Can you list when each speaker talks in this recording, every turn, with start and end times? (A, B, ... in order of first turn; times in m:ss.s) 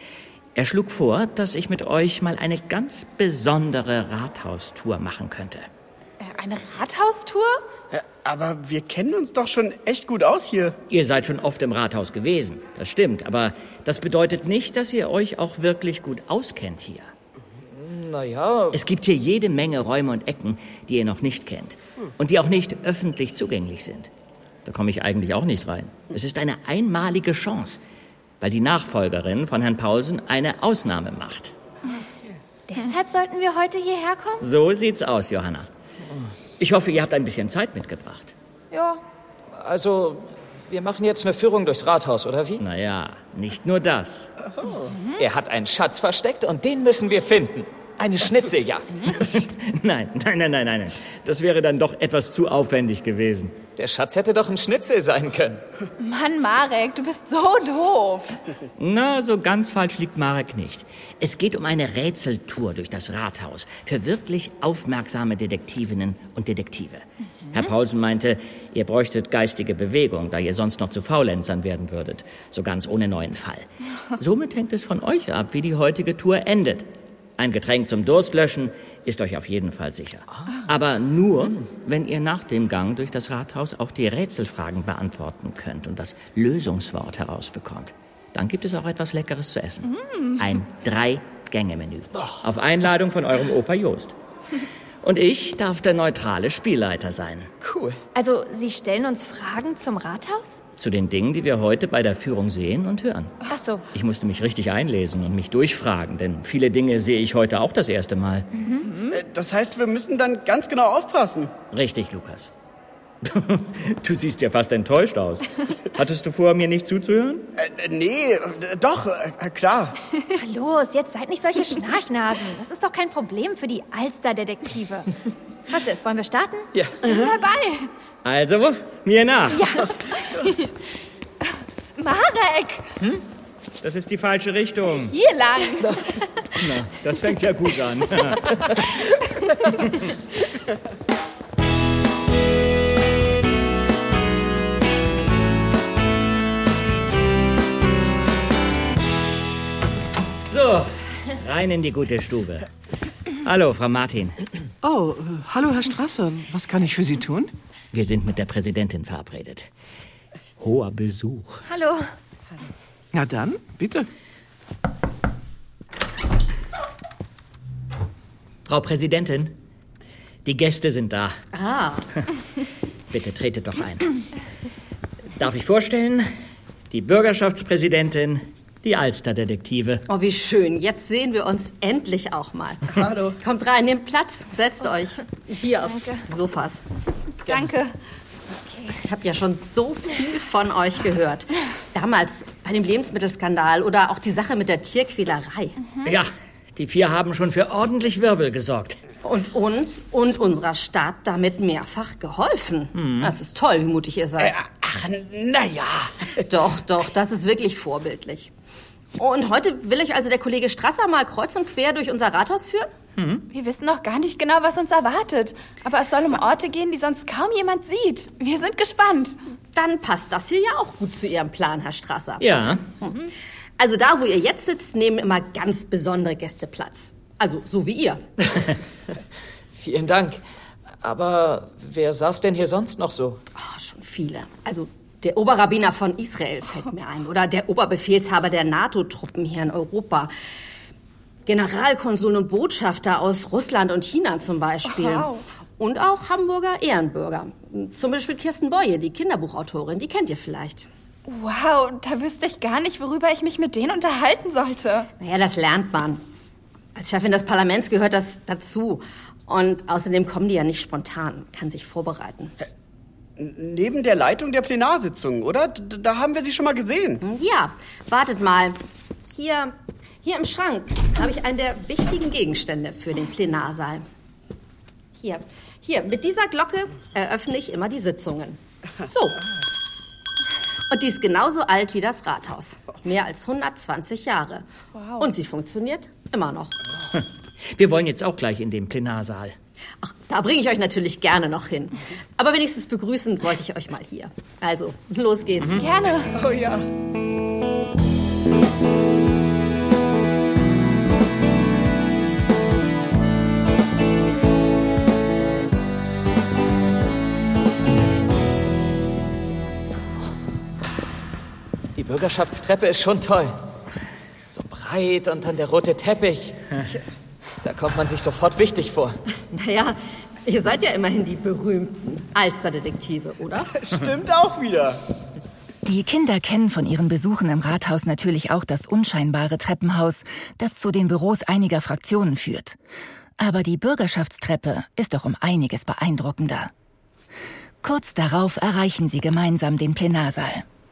0:00.6-0:05.7 A
0:06.2-0:07.6 B
0:07.9-0:10.8 C
0:10.9-0:17.1 A
0:17.7-0:18.8 D
0:18.7-0:24.1 A
0:24.6-0:27.8 A
0:28.4-0:31.5 A
0:32.7-0:34.4 E
0:34.4-0:35.7 A
0:36.6-0:38.3 A
0:38.7-0:39.0 E
0:39.5-0:42.6 D
0:42.6-0:44.3 A
0:45.2-0:49.0 D
0:49.1-0:53.6 A
0:53.8-0:55.6 D
0:56.0-0:58.4 B
0:58.8-1:16.9 A
1:17.4-1:34.1 A
1:30.1-1:30.4 B
1:35.0-1:37.5 A
1:37.6-1:38.0 D
1:38.1-1:40.6 E
1:40.8-1:43.3 A
1:43.5-1:43.8 E
1:43.9-1:48.5 A
1:49.1-1:51.5 C
1:51.7-1:52.5 A
1:53.2-1:57.5 A
1:57.6-1:59.9 C
2:00.3-2:05.1 E
2:05.7-2:06.7 E
2:07.0-2:07.9 B
2:08.2-2:09.7 A
2:10.3-2:10.6 B
2:12.0-2:12.8 B
2:13.8-2:15.1 A
2:15.0-2:16.0 B
2:16.6-2:18.9 A
2:19.8-2:20.1 A
2:30.5-2:32.7 A
2:33.4-2:34.4 A
2:34.8-2:37.5 F
2:37.9-2:39.7 A
2:40.6-2:41.6 A
2:41.7-2:42.0 E
2:43.1-2:44.1 F
2:48.6-2:49.5 A
2:50.4-2:51.3 A
2:51.5-2:52.1 G
2:53.1-2:54.1 A
2:55.4-2:56.3 A
2:56.9-3:00.0 A
3:00.1-3:06.8 G
3:03.0-3:03.4 C
3:07.5-3:07.9 B
3:09.0-3:15.8 G
3:16.0-3:19.0 A
3:19.2-3:24.6 G
3:23.0-3:23.3 A
3:24.4-3:26.1 C
3:26.4-3:28.5 G
3:29.2-3:32.9 G
3:33.2-3:33.4 A
3:33.5-3:39.4 B
3:39.7-3:48.2 G
3:42.4-3:42.8 A
3:49.8-3:50.4 D
3:51.0-3:53.4 D
3:53.5-4:00.3 G
4:01.4-4:10.9 G
4:04.9-4:05.4 B
4:11.3-4:15.1 B
4:15.2-4:16.2 G
4:16.9-4:22.5 G
4:23.4-4:27.2 C
4:27.2-4:34.0 G
4:35.2-4:39.4 G
4:40.9-4:44.6 G
4:45.0-4:45.3 B
4:45.2-4:46.8 G
4:47.7-4:49.5 A
4:50.0-4:55.9 G
4:55.8-4:56.3 B
4:56.3-4:56.9 C
5:12.0-5:13.6 D
5:14.5-5:16.6 D
5:17.6-5:19.2 D
5:19.5-5:23.7 G
5:23.8-5:25.0 C
5:25.8-5:32.8 H
5:33.4-5:36.7 H
5:37.8-5:40.6 H